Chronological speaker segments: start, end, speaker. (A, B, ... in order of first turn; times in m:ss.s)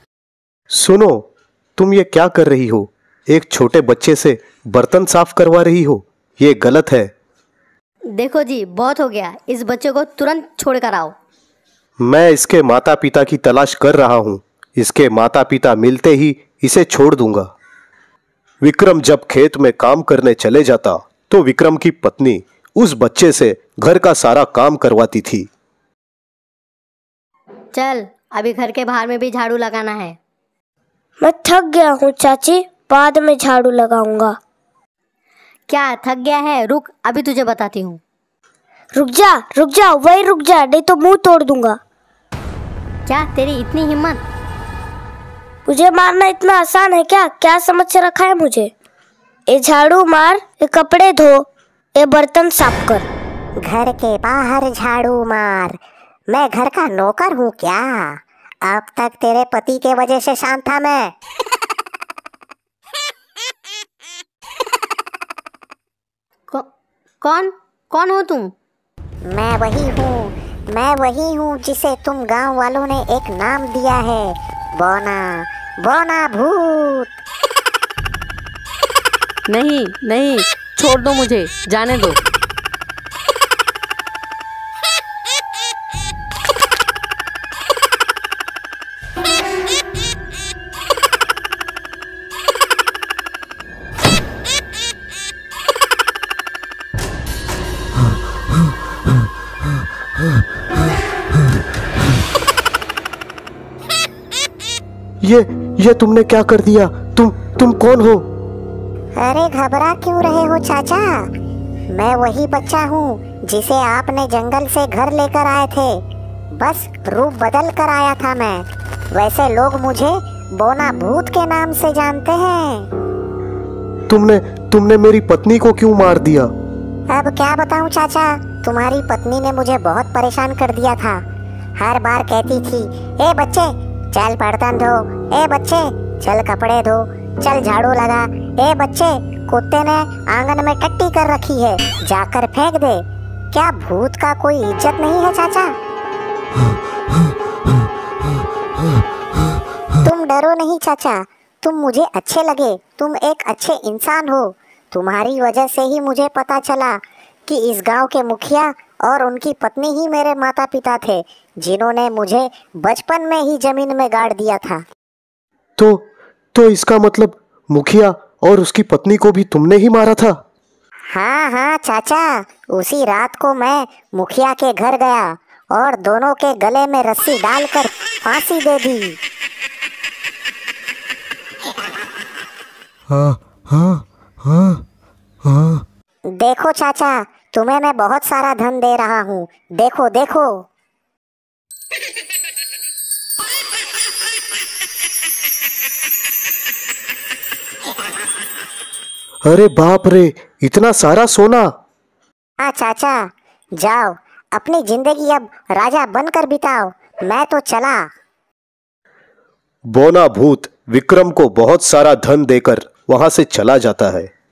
0:00.7-0:07.1 A
0:08.2-0:11.1 B
0:12.0-0:17.5 A
0:18.6-0:25.5 A
0:27.7-0:30.2 B
0:31.2-0:34.4 C
0:35.7-0:38.0 B
0:38.9-0:41.8 C
0:43.0-0:44.2 B
0:45.6-0:48.7 C
0:49.5-0:53.0 C
0:53.6-0:55.8 D
0:56.3-1:01.1 D
1:07.2-1:08.5 B
1:09.3-1:17.1 D
1:19.5-1:22.2 E
1:45.2-1:48.3 A
1:49.2-1:51.3 D
1:51.9-2:02.9 D
2:04.1-2:06.5 A
2:07.1-2:11.2 D
2:11.8-2:25.7 D
2:30.0-2:44.8 D
2:45.8-2:50.4 A
2:51.1-2:59.2 D
3:06.4-3:10.6 D
3:19.4-3:21.7 A
3:22.6-3:28.1 D
3:29.9-3:34.3 A